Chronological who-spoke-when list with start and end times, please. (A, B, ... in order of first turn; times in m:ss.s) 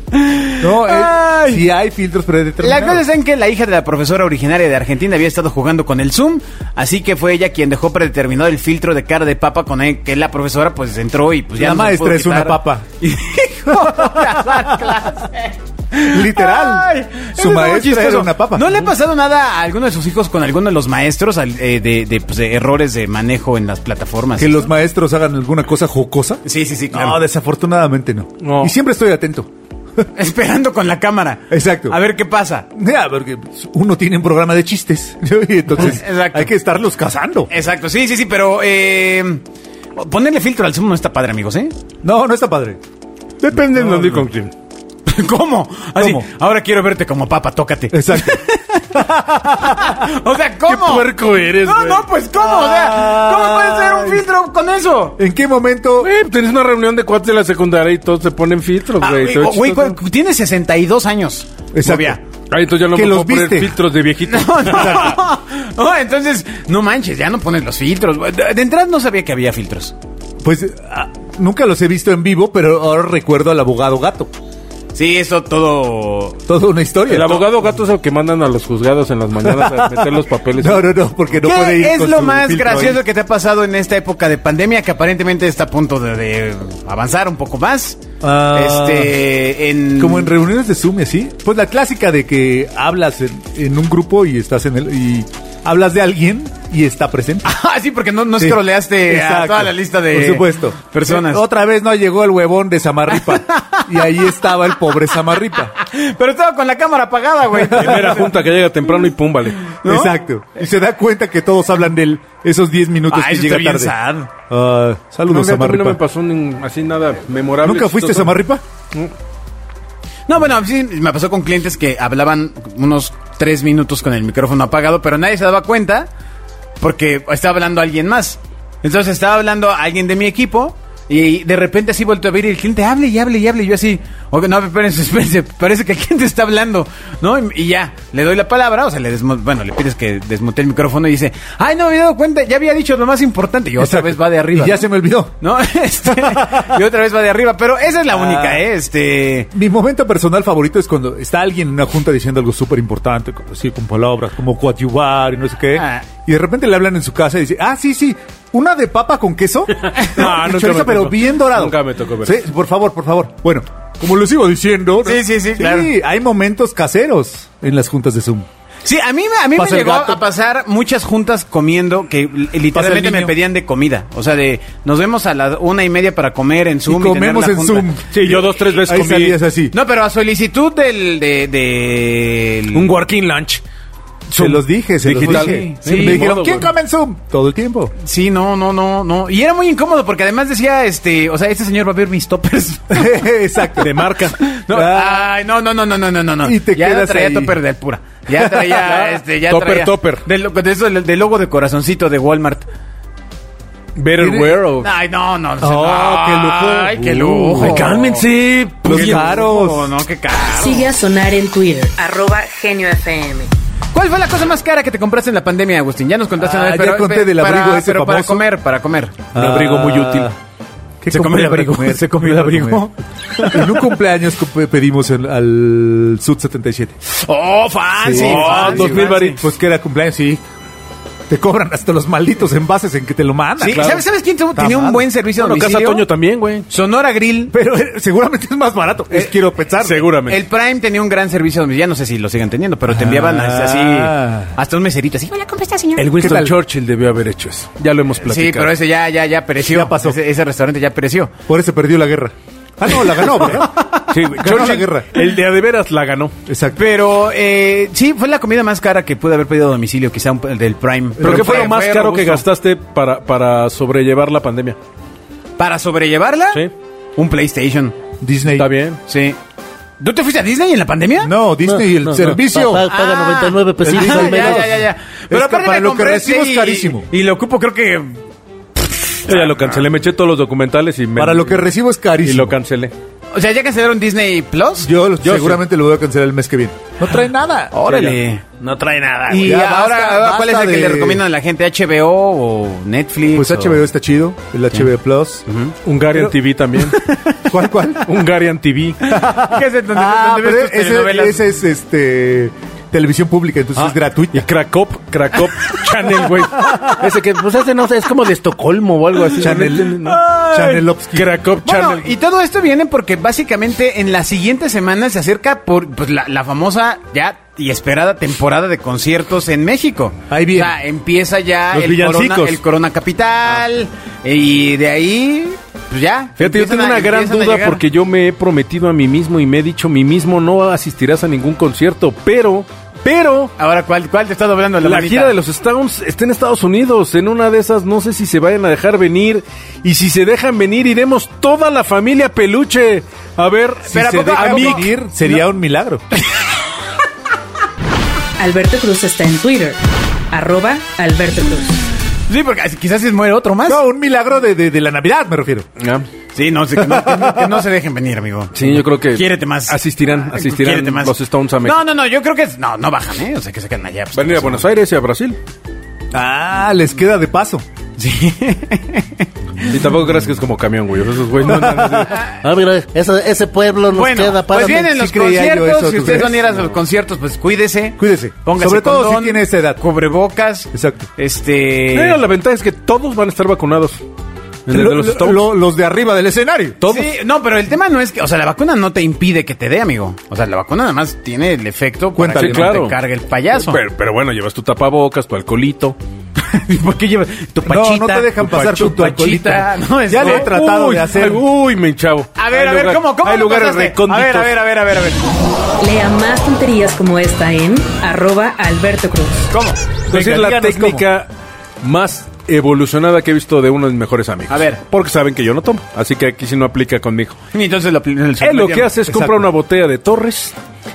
0:00.1-0:01.6 A
0:00.6-0:03.0 B
0:02.6-0:24.6 A
0:11.6-0:12.8 B
0:13.7-0:14.2 B
0:16.0-0:18.9 B
0:24.4-0:29.5 B
0:26.4-0:27.2 A
0:28.4-0:28.7 C
0:30.2-0:32.7 A
0:31.5-0:32.0 B
0:32.7-0:37.5 B
0:35.8-0:36.5 A
0:37.5-0:39.4 A
0:40.0-0:41.8 A
0:42.0-0:42.8 B
0:43.4-0:44.5 C
0:43.8-0:44.2 B
0:45.1-0:55.2 A
0:46.0-0:46.3 B
0:47.9-0:50.0 B
0:50.7-0:52.1 C
0:52.4-0:54.2 B
0:55.2-0:56.1 B
0:56.0-1:00.0 C
0:59.0-1:02.2 A
1:01.7-1:02.2 B
1:02.5-1:05.2 C
1:02.9-1:03.8 B
1:04.3-1:10.0 A
1:04.7-1:05.2 B
1:10.4-1:14.3 B
1:14.9-1:16.4 A
1:16.5-1:17.5 B
1:17.1-1:20.9 C
1:19.4-1:23.0 B
1:21.4-1:30.3 A
1:28.2-1:29.2 B
1:30.0-1:37.5 B
1:37.4-1:41.4 A
1:38.4-1:45.7 B
1:43.1-1:43.9 A
1:45.8-1:48.3 A
1:47.6-1:48.2 B
1:47.6-1:49.7 C
1:49.7-1:50.2 A
1:49.8-1:56.0 B
1:53.1-1:54.3 A
1:55.3-1:58.4 C
1:57.6-1:58.6 B
2:00.3-2:06.1 A
2:06.8-2:24.8 A
2:23.8-2:25.4 B
2:25.4-2:29.5 A
2:26.1-2:26.8 B
2:28.1-2:28.6 B
2:29.5-2:48.5 B
2:35.7-2:36.0 A
2:40.0-2:42.4 C
2:45.0-2:45.9 A
2:48.8-2:57.9 A
2:49.5-2:50.2 B
2:52.7-2:53.4 B
2:56.9-2:59.7 B
2:58.1-2:59.4 C
2:59.7-3:02.9 A
3:02.7-3:03.6 C
3:04.3-3:06.7 C
3:04.4-3:07.9 B
3:05.1-3:06.3 A
3:08.0-3:13.2 A
3:12.9-3:14.0 B
3:13.8-3:14.4 C
3:14.4-3:22.7 A
3:14.7-3:15.3 B
3:16.4-3:17.6 B
3:18.3-3:18.8 B
3:18.8-3:20.2 C
3:24.0-3:24.9 C
3:24.2-3:24.6 B
3:24.8-3:28.3 A
3:25.6-3:27.9 B
3:27.5-3:29.3 C
3:28.8-3:29.9 B
3:28.9-3:30.9 A
3:30.6-3:33.5 D
3:33.9-3:39.2 A
3:36.4-3:38.5 B
3:39.3-3:40.3 C
3:39.3-3:40.4 B
3:41.0-3:47.0 B
3:41.1-3:43.7 A
3:47.2-3:49.4 A
3:48.0-3:50.4 B
3:48.0-3:49.5 C
3:51.3-3:54.0 B
3:53.6-3:56.0 A
3:53.6-3:54.0 C
3:54.6-3:55.0 B
3:55.4-3:56.7 C
3:56.7-3:57.5 A
3:57.5-4:00.1 B
3:59.8-4:00.4 C
4:00.3-4:06.0 A
4:02.9-4:04.5 B
4:06.0-4:08.7 C
4:06.1-4:06.6 B
4:08.2-4:11.4 A
4:09.6-4:10.2 B
4:11.5-4:15.2 B
4:13.6-4:14.0 A
4:14.1-4:16.3 C
4:16.5-4:16.8 B
4:16.8-4:22.4 A
4:21.2-4:21.7 B
4:21.2-4:24.8 C
4:25.6-4:28.0 A
4:28.2-4:28.7 B
4:28.5-4:29.0 C
4:29.1-4:29.4 A
4:30.0-4:31.3 A
4:31.2-4:32.9 B
4:31.7-4:34.8 E
4:32.9-4:38.2 A
4:33.8-4:37.1 B
4:38.8-4:39.9 A
4:39.3-4:41.6 C
4:41.2-4:42.6 B
4:42.2-4:42.9 C
4:43.3-4:44.9 A
4:44.8-4:47.8 B
4:45.2-4:45.6 C
4:47.7-4:48.4 A
4:47.8-4:49.6 C
4:49.3-4:53.8 A
4:49.3-4:51.2 B
4:53.3-4:55.4 B
4:55.5-4:55.7 A
4:55.8-4:57.0 C
4:56.1-4:56.4 B
4:56.9-4:57.4 A
4:57.5-4:58.1 B
4:58.1-4:59.0 C
4:59.0-5:01.4 A
4:59.1-5:04.5 B
5:03.9-5:10.6 C
5:09.4-5:11.3 B
5:10.2-5:10.8 A
5:11.1-5:12.1 C
5:11.6-5:27.8 A
5:20.3-5:20.8 B
5:21.7-5:22.6 B
5:26.4-5:33.5 C
5:33.6-5:35.4 A
5:34.8-5:44.9 C
5:43.9-5:44.9 A
5:43.9-5:46.0 B
5:48.4-5:49.8 D
5:50.3-5:51.8 D
5:52.3-5:53.8 A
5:53.6-5:55.7 B
5:55.8-5:56.1 C
5:56.3-6:04.6 A
5:56.8-5:57.6 B
5:58.5-6:01.8 C
6:04.1-6:05.4 C
6:06.1-6:07.6 B
6:08.0-6:09.7 A
6:09.6-6:12.2 C
6:11.5-6:12.2 B
6:12.4-6:14.9 E
6:13.9-6:22.2 A
6:14.8-6:16.5 B
6:18.0-6:19.8 B
6:20.7-6:21.1 B
6:21.9-6:24.0 C
6:24.7-6:25.4 C
6:24.7-6:26.8 B
6:26.8-6:33.8 A
6:32.2-6:32.8 B
6:32.4-6:33.0 C
6:33.5-6:36.0 C
6:36.4-6:40.5 A
6:37.7-6:41.4 B
6:40.2-6:44.5 C
6:42.4-6:45.2 A
6:45.8-6:49.5 D
6:49.5-6:49.8 A
6:50.1-6:51.0 B
6:50.1-6:51.3 C
6:51.8-6:57.4 C
6:54.5-6:54.8 A
6:57.5-6:58.9 A
6:58.4-7:00.6 C
6:59.1-6:59.4 B